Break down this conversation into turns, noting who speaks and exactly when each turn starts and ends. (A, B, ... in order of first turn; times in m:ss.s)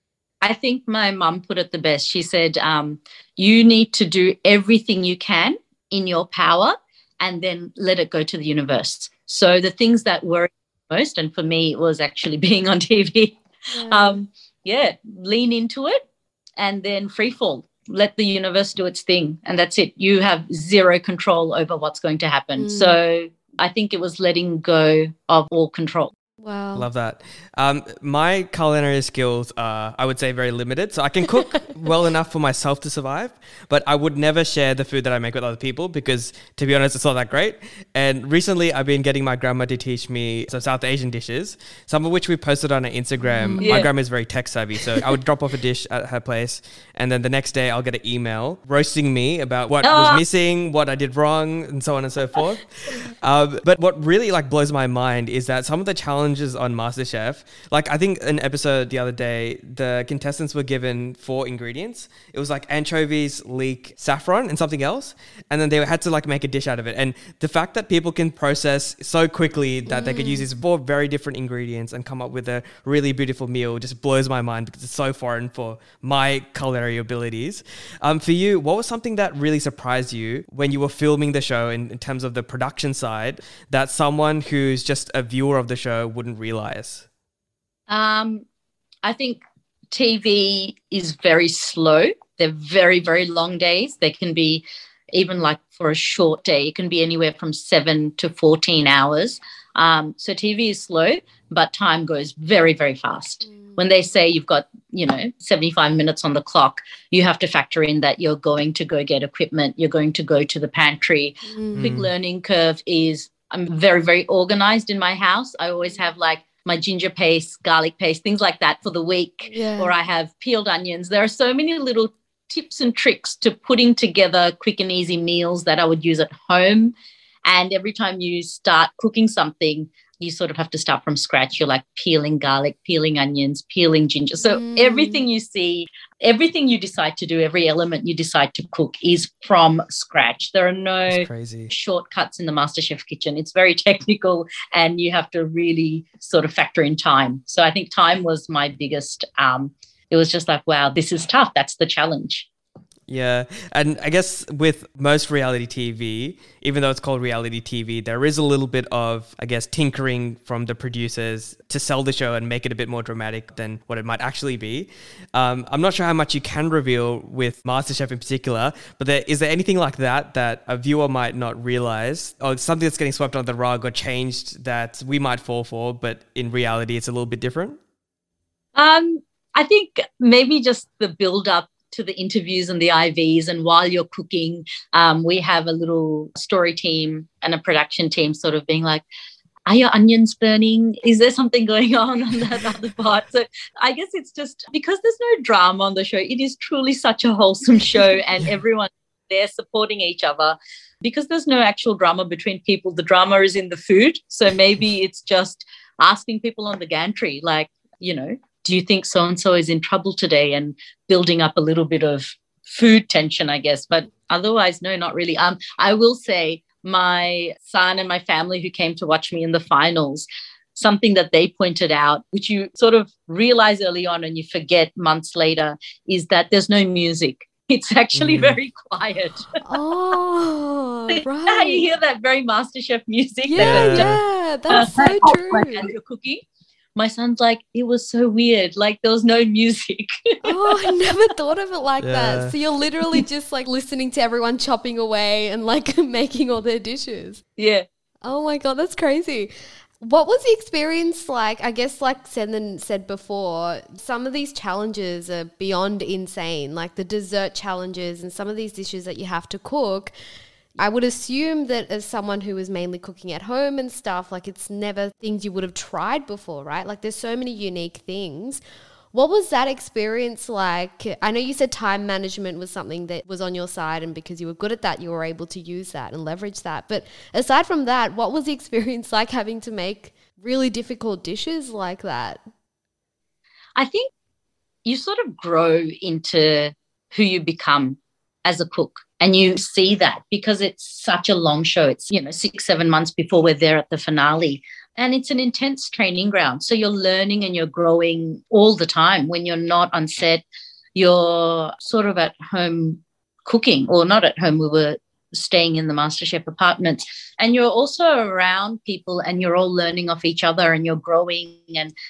0:00.4-0:16.0 A
0:13.7-0:14.2 B
0:16.6-0:26.1 A
0:22.6-0:23.0 B
0:26.4-0:26.9 B
0:26.7-1:27.0 C
0:43.2-0:43.7 B
0:43.6-0:43.9 A
0:49.8-0:50.2 A
1:09.8-1:10.4 B
1:27.9-1:28.4 A
1:29.0-2:06.9 A
1:51.4-1:51.9 B
1:51.7-1:52.1 C
1:59.5-1:59.9 B
2:07.4-2:32.5 A
2:14.4-2:15.2 B
2:21.1-2:21.7 C
2:33.1-2:57.8 C
2:58.7-3:09.0 A
3:09.7-3:49.5 A
3:48.1-3:48.6 C
3:49.6-3:51.9 B
3:51.1-3:54.2 A
3:53.4-3:55.9 B
3:53.6-3:54.2 C
3:54.7-3:56.4 A
3:57.0-4:01.1 A
4:00.4-4:07.4 B
4:02.0-4:02.5 C
4:07.6-4:07.8 A
4:08.2-4:20.1 B
4:20.8-4:28.6 B
4:29.1-4:42.4 B
4:43.8-4:44.1 A
4:44.8-5:00.4 A
5:00.9-5:11.9 A